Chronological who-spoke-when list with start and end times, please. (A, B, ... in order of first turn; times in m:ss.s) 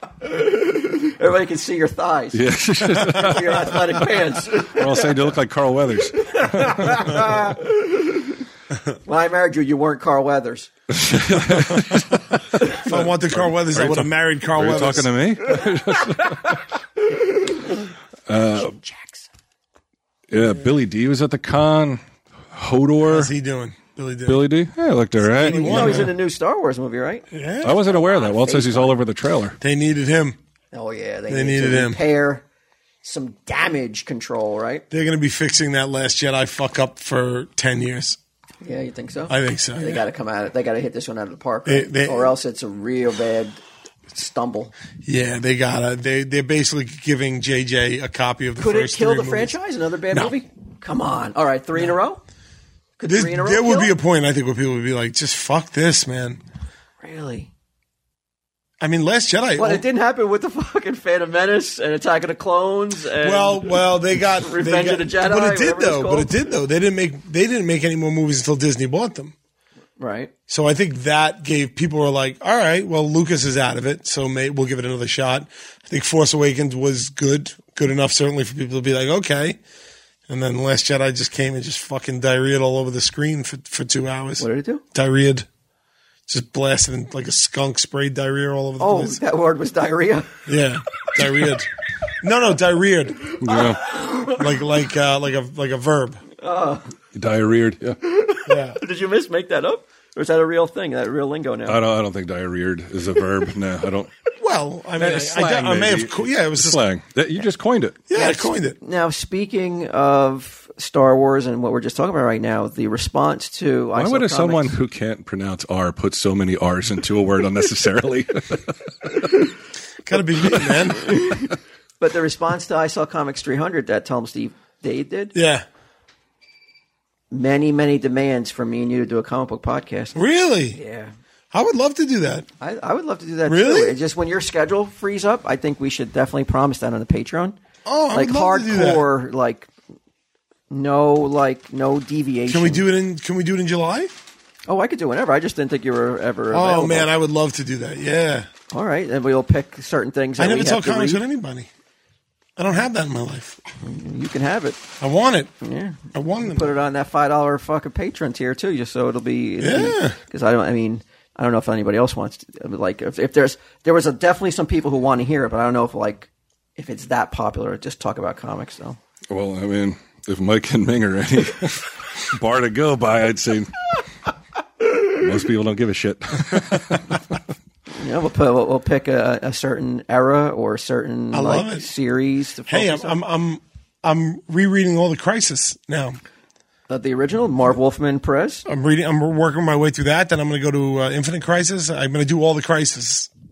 0:00.2-0:02.4 A
0:02.3-0:04.0 B
0:03.0-0:05.3 A
0:04.6-0:07.1 B
0:06.2-0:08.4 A
0:09.0-0:10.7 A
0:10.9-0:16.6 B
0:12.8-0:15.1 C
0:18.3-0:18.8 B
0:18.5-0:19.3 A
0:20.3-0:23.3 B
0:23.0-0:24.5 C
0:24.2-0:26.1 B
0:25.3-0:26.1 C
0:25.4-0:29.0 A
0:27.3-0:27.8 C
0:27.6-0:29.6 B
0:29.6-0:30.4 C
0:30.7-0:32.4 A
0:31.3-0:32.0 C
0:33.0-0:34.8 A
0:34.9-0:38.2 C
0:38.6-0:44.7 A
0:39.3-0:40.0 C
0:41.6-0:42.3 C
0:45.0-0:49.5 C
0:48.6-0:52.2 A
0:53.0-0:53.9 A
0:53.0-0:56.4 C
0:57.0-0:57.5 A
0:58.8-0:59.8 C
0:59.6-1:03.9 A
1:03.2-1:09.3 C
1:04.4-1:06.4 A
1:10.0-1:10.3 A
1:10.5-1:19.6 C
1:20.3-1:25.4 C
1:24.4-1:24.8 A
1:26.3-1:29.2 C
1:28.8-1:30.3 A
1:30.5-1:31.7 C
1:32.2-1:33.3 C
1:33.4-1:33.8 B
1:33.5-1:34.4 A
1:34.2-1:36.2 C
1:36.4-1:36.8 A
1:37.1-1:38.0 B
1:38.0-1:41.8 A
1:38.5-1:38.8 C
1:41.6-1:44.1 B
1:44.4-1:46.8 C
1:45.0-1:48.0 B
1:48.1-1:48.8 C
1:48.1-1:54.7 A
1:53.9-1:58.9 B
2:00.0-2:01.1 C
2:01.0-2:05.3 A
2:05.3-2:05.6 C
2:07.3-2:10.2 A
2:10.1-2:10.8 C
2:10.7-2:11.1 A
2:11.5-2:12.5 C
2:12.6-2:17.6 A
2:13.4-2:14.0 C
2:17.8-2:19.0 C
2:18.1-2:19.7 A
2:20.7-2:22.8 A
2:22.5-2:24.2 C
2:24.7-2:27.1 A
2:26.5-2:28.5 C
2:28.7-2:31.2 A
2:30.4-2:31.7 C
2:32.6-2:33.6 C
2:33.8-2:34.8 A
2:35.0-2:35.5 C
2:35.6-2:49.0 A
2:36.1-2:36.7 C
2:39.6-2:40.2 C
2:49.3-2:53.7 B
2:55.0-2:57.4 B
2:57.9-3:03.2 A
3:01.3-3:01.9 C
3:02.7-3:06.2 C
3:06.9-3:08.6 A
3:08.6-3:13.3 C